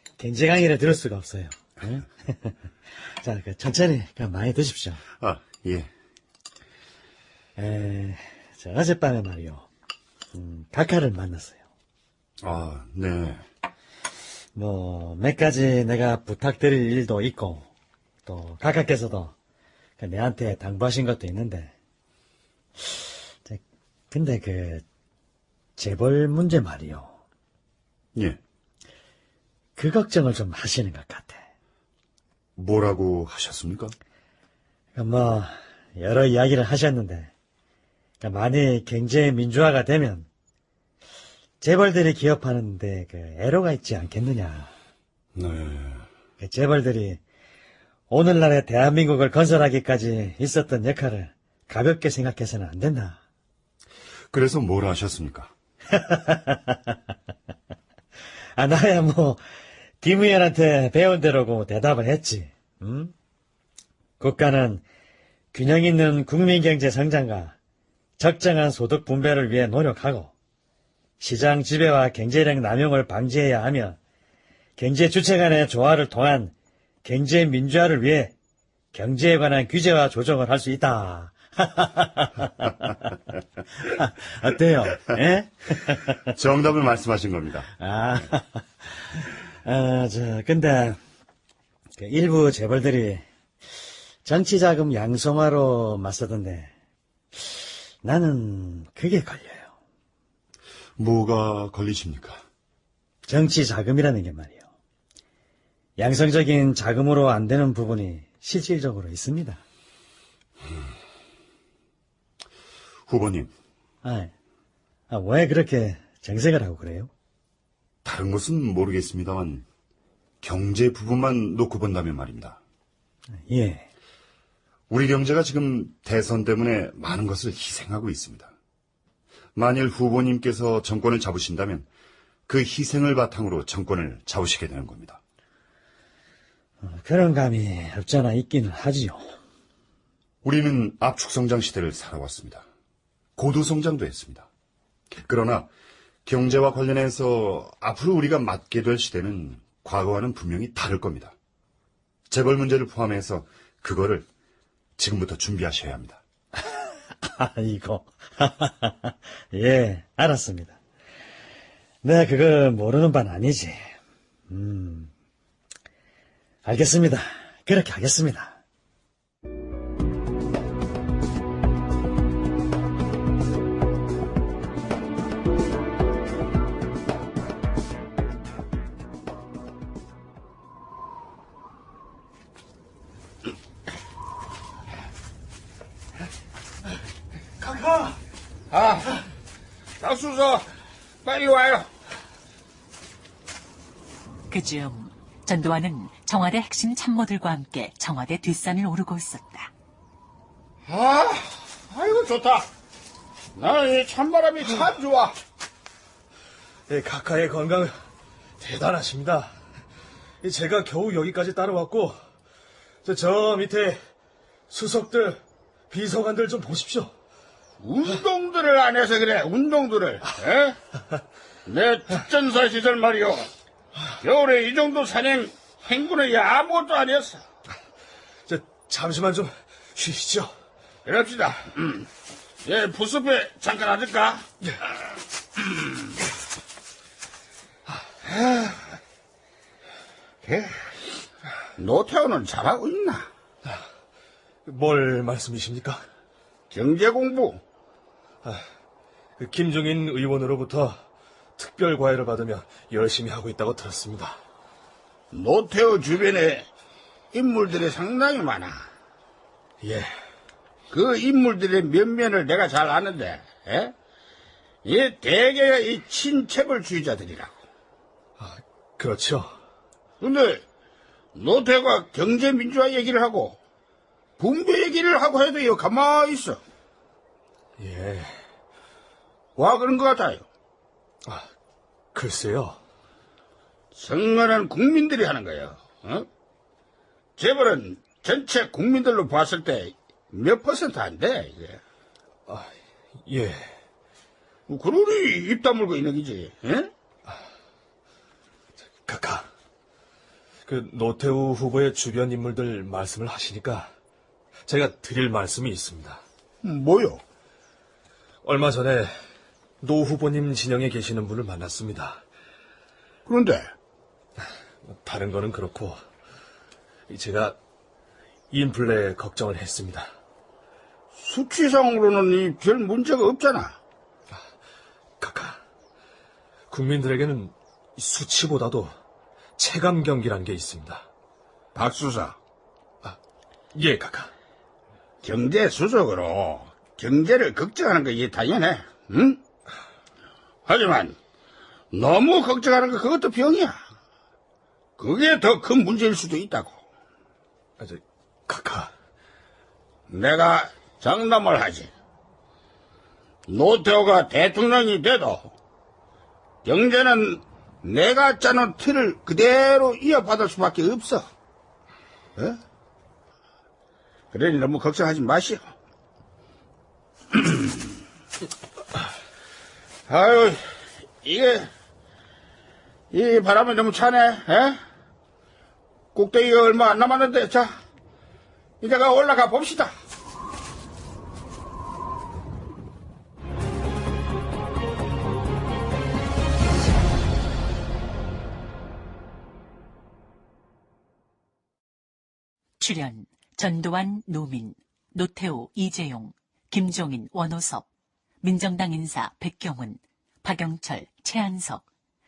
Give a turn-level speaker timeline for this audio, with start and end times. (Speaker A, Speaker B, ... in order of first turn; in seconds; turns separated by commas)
Speaker A: 0.2-2.5, Speaker A: 3.2-5.0, Speaker B: 5.1-5.9, Speaker A: 7.6-9.7, Speaker A: 10.3-11.6, Speaker B: 12.4-13.4, Speaker A: 14.5-17.7, Speaker A: 18.2-19.3, Speaker A: 20.0-21.7, Speaker A: 24.1-24.8, Speaker A: 25.8-27.1, Speaker A: 29.8-31.4, Speaker B: 32.6-33.9, Speaker A: 34.9-37.3, Speaker A: 38.2-40.3, Speaker A: 41.6-44.7, Speaker B: 45.4-46.0, Speaker A: 46.4-47.2, Speaker A: 48.1-53.2, Speaker B: 54.3-55.5, Speaker A: 55.9-56.8, Speaker A: 58.5-59.4, Speaker A: 60.0-63.1, Speaker A: 64.2-64.8, Speaker A: 65.5-67.5, Speaker A: 68.2-70.3, Speaker A: 71.2-74.0, Speaker A: 74.8-76.5, Speaker A: 77.0-78.3, Speaker A: 78.9-82.5, Speaker A: 83.8-86.2, Speaker B: 86.4-87.7, Speaker A: 87.8-91.0, Speaker A: 92.0-93.2, Speaker A: 94.2-96.7, Speaker A: 98.0-99.7, Speaker B: 101.0-102.4, Speaker A: 103.3-104.6, Speaker A: 106.0-109.6, Speaker B: 113.1-113.5, Speaker A: 114.0-114.3, Speaker A: 115.1-117.1, Speaker B: 118.0-119.6, Speaker B: 120.4-122.6, Speaker A: 123.5-123.8, Speaker B: 124.9-128.5, Speaker B: 129.5-131.9, Speaker B: 132.5-135.2, Speaker A: 136.8-139.3, Speaker B: 140.4-142.6, Speaker B: 143.4-144.5, Speaker B: 145.2-145.7, Speaker B: 146.2-151.3, Speaker B: 152.3-154.3, Speaker B: 155.0-156.2, Speaker A: 157.2-160.8, Speaker A: 162.0-163.9, Speaker A: 164.5-165.1, Speaker A: 166.6-168.6, Speaker C: 188.7-189.2, Speaker C: 190.0-190.7, Speaker C: 191.2-191.9, Speaker D: 194.5-199.7, Speaker C: 200.8-202.7, Speaker C: 203.5-205.4, Speaker E: 206.9-207.9, Speaker E: 208.6-209.5, Speaker E: 210.4-212.2, Speaker E: 213.0-214.0, Speaker E: 214.7-215.4, Speaker E: 215.9-217.1, Speaker C: 217.8-220.8, Speaker C: 221.7-223.5, Speaker C: 224.2-227.4, Speaker E: 228.5-230.5, Speaker C: 231.1-232.1, Speaker C: 232.6-234.4, Speaker C: 240.4-240.8, Speaker C: 241.8-243.3, Speaker E: 244.7-246.0, Speaker C: 246.7-247.6, Speaker E: 249.4-251.0, Speaker E: 251.6-254.4, Speaker C: 255.3-256.7, Speaker C: 257.3-258.9, Speaker E: 259.8-260.1, Speaker C: 260.9-263.9, Speaker C: 264.8-267.6, Speaker E: 268.4-269.5, Speaker C: 270.2-270.6, Speaker C: 271.3-273.6, Speaker C: 274.4-276.6, Speaker E: 277.8-278.3, Speaker C: 279.6-280.4, Speaker E: 282.1-282.8, Speaker C: 283.9-286.3, Speaker C: 287.4-291.8, Speaker E: 293.2-293.7, Speaker C: 294.7-296.9, Speaker E: 299.1-299.5, Speaker E: 300.6-303.9, Speaker E: 304.7-306.2, Speaker C: 306.6-307.2, Speaker E: 308.4-309.1, Speaker E: 309.8-312.2, Speaker C: 313.3-313.7, Speaker E: 314.9-316.0, Speaker E: 317.1-317.6, Speaker E: 318.5-320.1, Speaker C: 321.1-323.8, Speaker E: 325.2-325.6, Speaker E: 326.7-328.9, Speaker E: 329.6-331.0, Speaker C: 331.7-332.4, Speaker E: 333.7-334.3, Speaker C: 335.2-339.4, Speaker C: 340.7-341.2, Speaker C: 341.9-343.8, Speaker C: 345.0-346.8, Speaker E: 347.8-348.9, Speaker C: 350.1-351.9, Speaker C: 353.5-355.5, Speaker C: 356.6-361.3, Speaker C: 364.3-365.6, Speaker C: 367.3-367.7, Speaker C: 370.1-371.7, Speaker C: 373.1-374.8, Speaker C: 376.1-377.7, Speaker C: 378.8-379.9, Speaker D: 392.8-397.9, Speaker D: 398.4-401.8